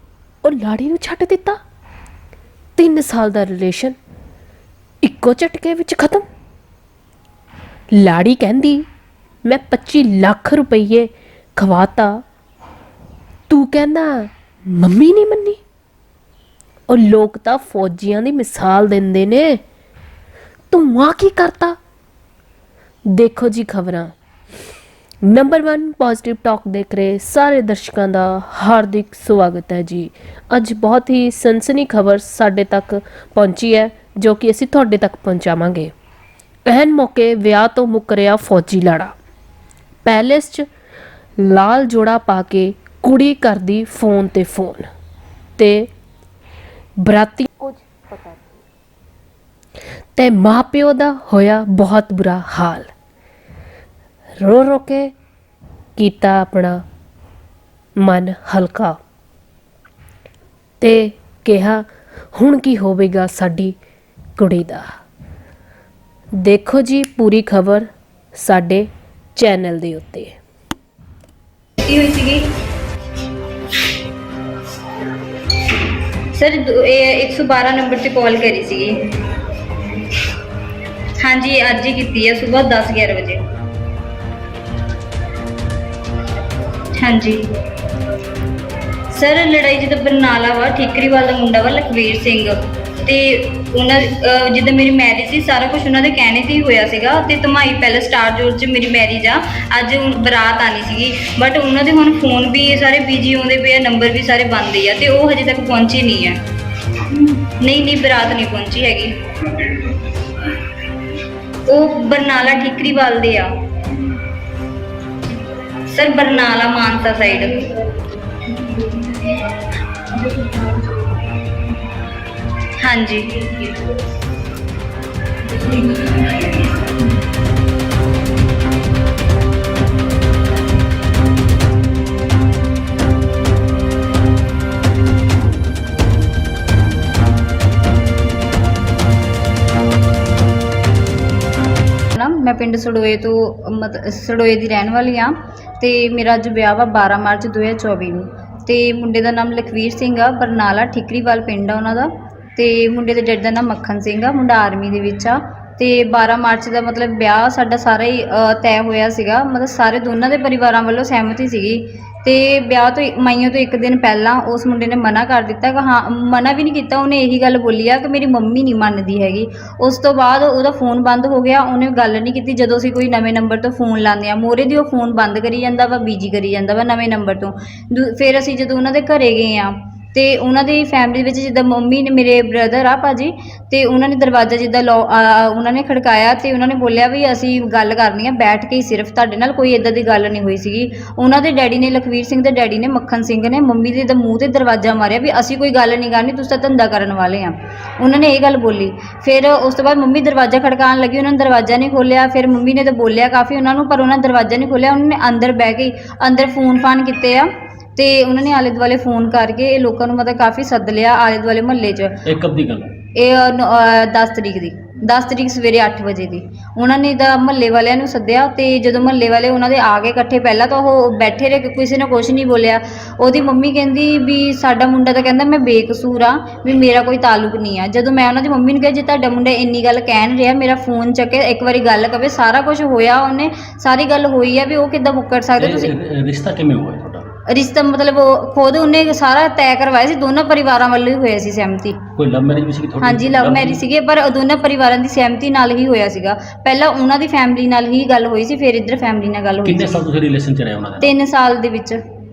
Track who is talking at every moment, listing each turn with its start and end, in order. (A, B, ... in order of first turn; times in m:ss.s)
0:00.4-0:01.6 A
0:02.8-0:04.0 A
0:05.0-0:06.2 A
0:07.9-0:08.8 A
0:09.4-0:12.2 A
0:13.5-0:15.6 A
0:16.9-0:19.6 A
0:20.7-0:21.8 A
0:23.1-0:24.1 A
0:25.2-0:35.9 A
0:36.6-0:39.1 A
0:40.0-0:40.7 A
0:41.4-0:44.9 A
0:45.6-0:45.9 A
0:47.0-0:48.4 A
0:50.2-0:52.9 A
0:54.4-0:55.1 A
0:56.0-0:56.8 A
0:58.0-0:59.0 A
1:00.8-1:03.8 A
1:04.4-1:04.9 A
1:06.4-1:10.4 A
1:11.8-1:12.4 B
1:16.3-1:19.0 B
1:21.2-1:23.4 B
1:27.0-1:27.4 B
1:29.1-1:46.4 B
1:47.6-1:50.0 B
1:51.7-1:53.5 B
1:55.9-1:57.7 B
1:58.7-1:59.2 B
2:02.8-2:03.9 B
2:05.5-2:06.6 B
2:22.1-3:32.2 B
3:32.2-3:32.9 C
3:33.2-3:55.9 B
3:55.6-3:57.2 C
3:57.5-4:02.0 B
4:02.2-4:03.8 C
4:03.0-4:10.0 B
4:09.6-4:11.1 C
4:11.0-4:12.0 B